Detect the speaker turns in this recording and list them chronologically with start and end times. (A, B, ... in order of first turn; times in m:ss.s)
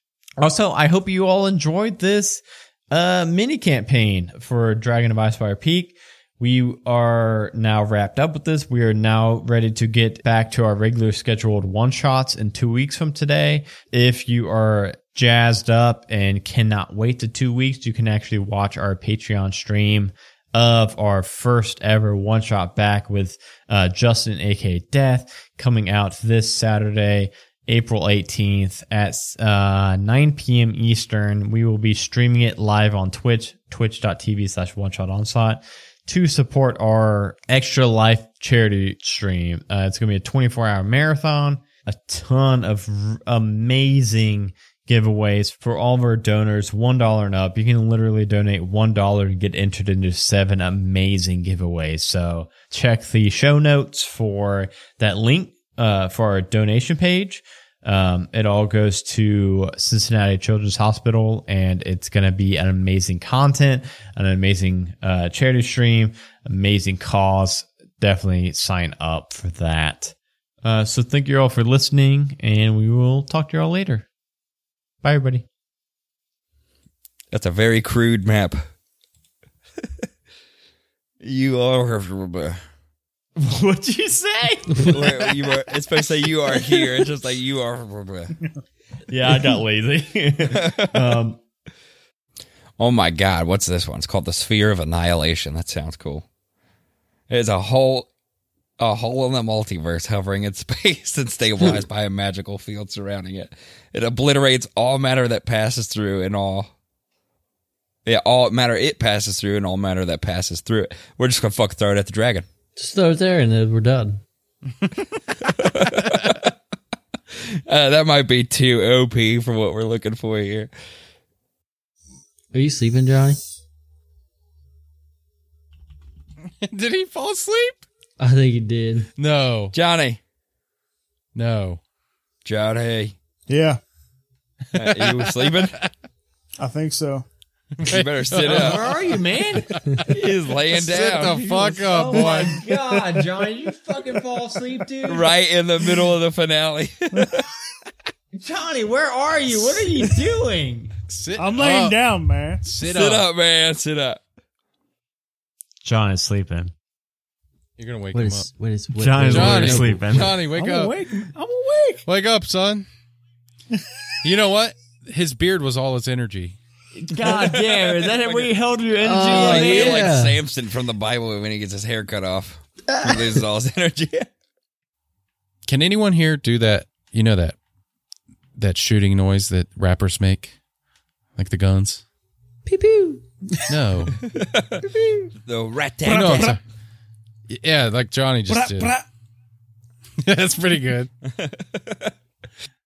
0:00.4-1:14.1 A
1:15.0-1:15.4 A
1:17.3-1:18.6 B
1:21.2-1:22.6 B
1:23.4-1:25.3 A
1:24.8-1:28.3 B
1:29.1-1:31.4 A
1:30.5-1:31.1 B
1:32.8-1:36.2 B
1:37.3-1:38.1 B
1:38.8-1:46.7 B
1:48.0-1:52.4 B
1:52.8-1:54.2 C
1:55.4-1:56.5 B
1:57.3-2:00.7 B
2:02.5-2:03.4 C
2:06.6-2:07.8 D
2:08.2-2:09.1 C
2:09.2-2:09.7 D
2:09.7-2:10.2 B
2:11.3-2:11.8 D
2:12.4-2:13.1 B
2:13.5-2:13.8 E
2:14.7-2:15.8 B
2:14.8-2:15.9 D
2:16.6-2:17.3 E
2:17.8-2:20.1 D
2:17.8-2:18.8 B
2:18.5-2:20.1 A
2:20.0-2:21.8 B
2:20.7-2:22.7 D
2:21.4-2:25.3 A
2:25.0-2:27.4 B
2:27.1-2:27.4 E
2:28.3-2:30.9 A
2:31.1-2:32.0 D
2:31.4-2:32.6 E
2:32.6-2:33.2 D
2:32.8-2:34.2 B
2:35.8-2:36.7 A
2:37.8-2:38.5 D
2:38.1-2:40.2 C
2:39.0-2:40.4 A
2:39.2-2:41.0 D
2:40.5-2:42.0 E
2:42.0-2:42.8 D
2:44.2-2:46.6 D
2:47.0-2:50.1 A
2:47.4-2:48.4 B
2:49.0-2:50.4 C
2:49.3-2:54.3 B
2:52.9-2:53.2 C
2:55.6-2:57.6 D
2:58.6-3:00.5 D
3:01.4-3:02.0 D
3:02.6-3:03.2 C
3:03.7-3:04.2 D
3:04.2-3:04.8 B
3:04.8-3:05.3 C
3:05.4-3:06.6 B
3:06.0-3:06.6 E
3:06.1-3:06.6 D
3:07.5-3:08.9 D
3:08.5-3:09.0 E
3:10.2-3:11.1 D
3:11.2-3:12.1 B